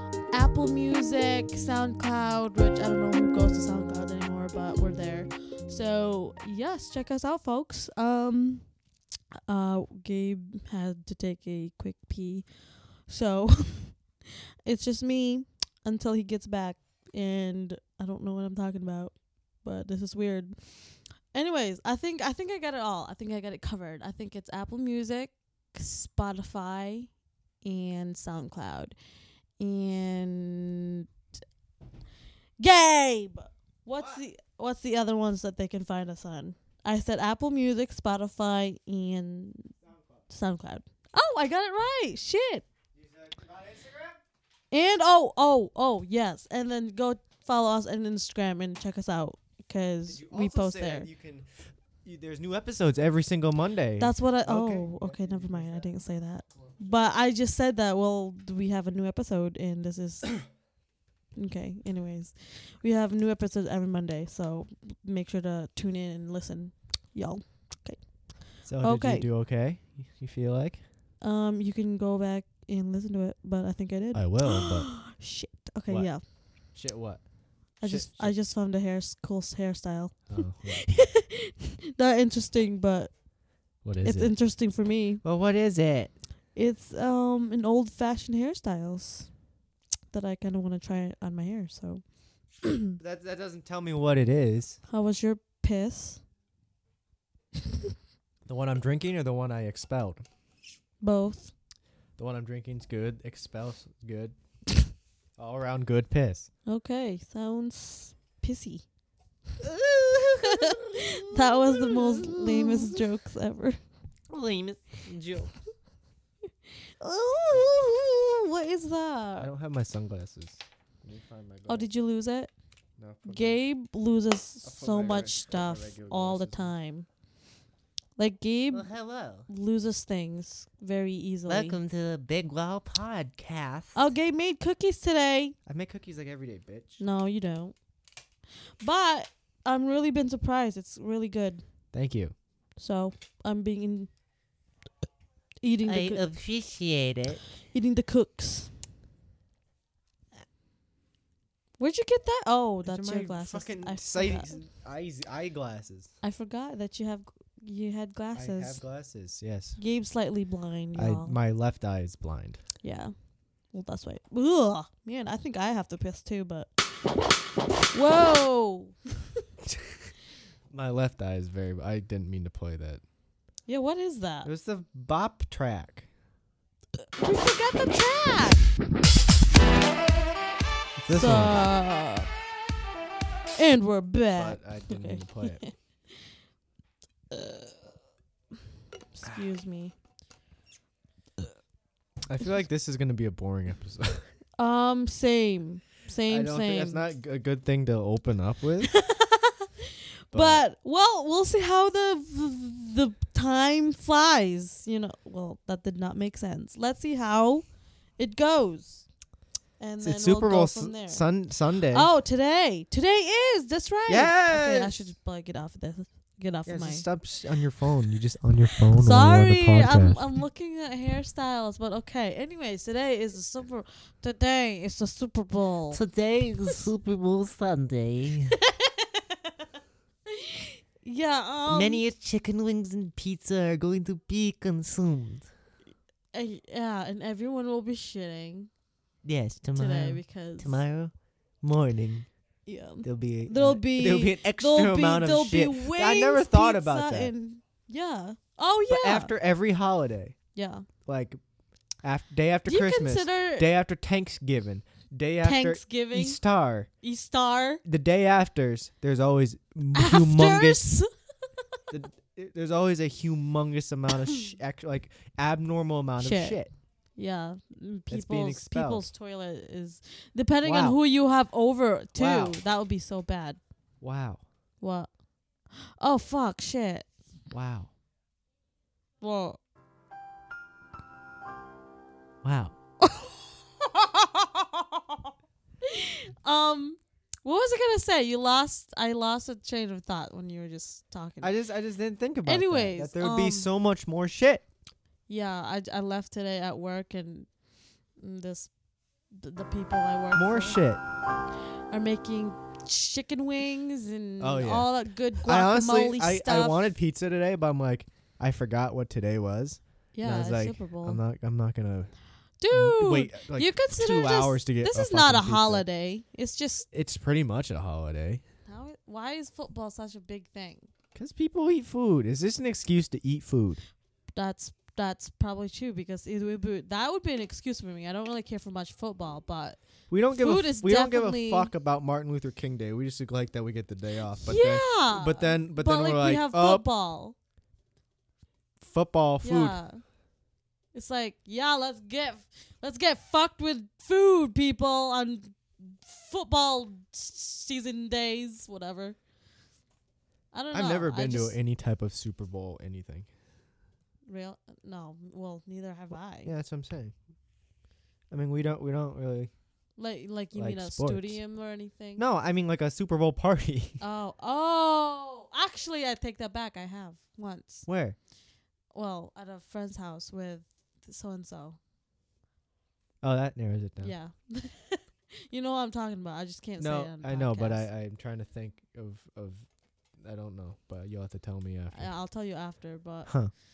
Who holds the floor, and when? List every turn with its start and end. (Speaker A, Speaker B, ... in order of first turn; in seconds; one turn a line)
Speaker A: 0.3-8.7
Speaker A: 9.5-27.1
Speaker A: 27.6-28.9
Speaker A: 29.6-31.0
Speaker A: 32.6-39.7
Speaker A: 40.3-42.6
Speaker B: 42.9-44.2
Speaker A: 44.7-51.1
Speaker B: 50.1-55.9
Speaker A: 54.0-60.5
Speaker A: 61.3-69.3
Speaker B: 68.6-70.8
Speaker A: 71.2-76.2
Speaker B: 74.1-75.0
Speaker B: 75.9-76.1
Speaker B: 76.7-78.3
Speaker A: 77.8-83.1
Speaker B: 80.3-80.8
Speaker B: 83.8-84.3
Speaker A: 84.0-85.2
Speaker B: 85.2-86.1
Speaker A: 86.5-89.3
Speaker A: 90.1-92.0
Speaker A: 92.6-93.0
Speaker B: 93.0-94.8
Speaker A: 94.9-96.2
Speaker B: 98.5-100.2
Speaker A: 101.0-101.5
Speaker B: 102.2-104.3
Speaker B: 105.4-106.5
Speaker A: 106.7-108.8
Speaker C: 109.7-110.8
Speaker A: 110.4-113.8
Speaker C: 111.5-113.0
Speaker C: 114.3-115.0
Speaker B: 115.0-115.5
Speaker A: 117.0-119.5
Speaker B: 119.4-121.9
Speaker A: 121.7-122.5
Speaker B: 123.0-123.6
Speaker A: 123.2-127.1
Speaker B: 124.6-126.7
Speaker A: 128.2-128.9
Speaker C: 128.7-129.5
Speaker A: 129.5-131.8
Speaker C: 131.5-134.0
Speaker A: 133.9-135.6
Speaker B: 135.7-137.0
Speaker A: 137.0-137.7
Speaker A: 138.8-141.6
Speaker B: 141.9-142.3
Speaker A: 142.8-144.1
Speaker A: 145.6-146.2
Speaker C: 145.8-147.6
Speaker A: 147.7-148.7
Speaker A: 151.8-154.6
Speaker B: 152.8-156.1
Speaker A: 156.2-158.8
Speaker B: 158.3-159.8
Speaker A: 159.8-161.4
Speaker B: 160.9-162.6
Speaker A: 162.8-163.1
Speaker A: 163.7-166.7
Speaker A: 167.9-168.9
Speaker B: 169.6-170.1
Speaker B: 170.7-173.0
Speaker A: 173.7-174.5
Speaker B: 174.4-176.1
Speaker A: 177.2-178.7
Speaker B: 181.0-181.6
Speaker A: 181.1-182.3
Speaker A: 183.6-185.7
Speaker B: 184.3-185.6
Speaker A: 187.3-187.8
Speaker A: 189.1-189.9
Speaker B: 192.3-194.3
Speaker A: 194.6-197.0
Speaker B: 196.3-198.9
Speaker A: 198.9-207.7
Speaker B: 200.3-200.6
Speaker A: 208.2-209.1
Speaker A: 209.8-211.3
Speaker B: 210.0-212.1
Speaker A: 211.9-217.1
Speaker B: 214.1-215.0
Speaker B: 216.7-220.2
Speaker A: 218.9-226.0
Speaker C: 225.9-228.6
Speaker A: 228.7-229.2
Speaker A: 230.3-232.0
Speaker C: 231.7-235.5
Speaker A: 236.3-238.7
Speaker C: 239.2-241.1
Speaker A: 239.7-240.8
Speaker B: 241.6-242.3
Speaker A: 242.7-249.3
Speaker B: 243.1-247.3
Speaker B: 248.9-250.4
Speaker A: 250.5-250.9
Speaker B: 251.1-251.4
Speaker B: 252.0-256.9
Speaker A: 252.7-253.7
Speaker A: 255.4-256.4
Speaker A: 257.0-257.8
Speaker B: 257.8-260.9
Speaker A: 259.9-261.1
Speaker B: 261.9-266.7
Speaker A: 266.2-273.6
Speaker B: 268.1-269.1
Speaker B: 270.6-271.0
Speaker B: 272.1-272.6
Speaker B: 274.0-274.4
Speaker A: 274.8-275.1
Speaker A: 275.7-277.1
Speaker B: 277.5-277.9
Speaker A: 279.2-279.6
Speaker B: 282.4-282.7
Speaker A: 283.0-285.3
Speaker A: 285.8-291.5
Speaker B: 291.4-294.6
Speaker A: 292.4-293.7
Speaker A: 295.3-297.5
Speaker A: 298.2-298.7
Speaker A: 299.3-300.8
Speaker B: 300.3-301.0
Speaker A: 301.9-306.8
Speaker B: 304.4-312.1
Speaker A: 310.1-311.2
Speaker A: 312.6-316.9
Speaker B: 312.7-315.8
Speaker B: 316.9-318.4
Speaker A: 318.6-320.9
Speaker B: 321.1-323.8
Speaker A: 324.3-331.7
Speaker B: 330.1-336.8
Speaker A: 334.4-337.3
Speaker B: 338.8-339.8
Speaker A: 339.4-340.0
Speaker A: 340.9-349.2
Speaker A: 350.5-351.6
Speaker B: 350.7-353.3
Speaker A: 354.2-356.5
Speaker B: 356.4-357.1
Speaker B: 358.3-359.5
Speaker A: 359.9-362.2
Speaker B: 360.5-361.4
Speaker B: 362.1-364.0
Speaker A: 364.0-367.9
Speaker B: 367.9-368.2
Speaker A: 368.9-371.8
Speaker B: 373.2-374.1
Speaker A: 374.0-377.9
Speaker B: 376.8-379.7
Speaker B: 380.2-382.1
Speaker A: 381.9-383.4
Speaker B: 383.3-383.5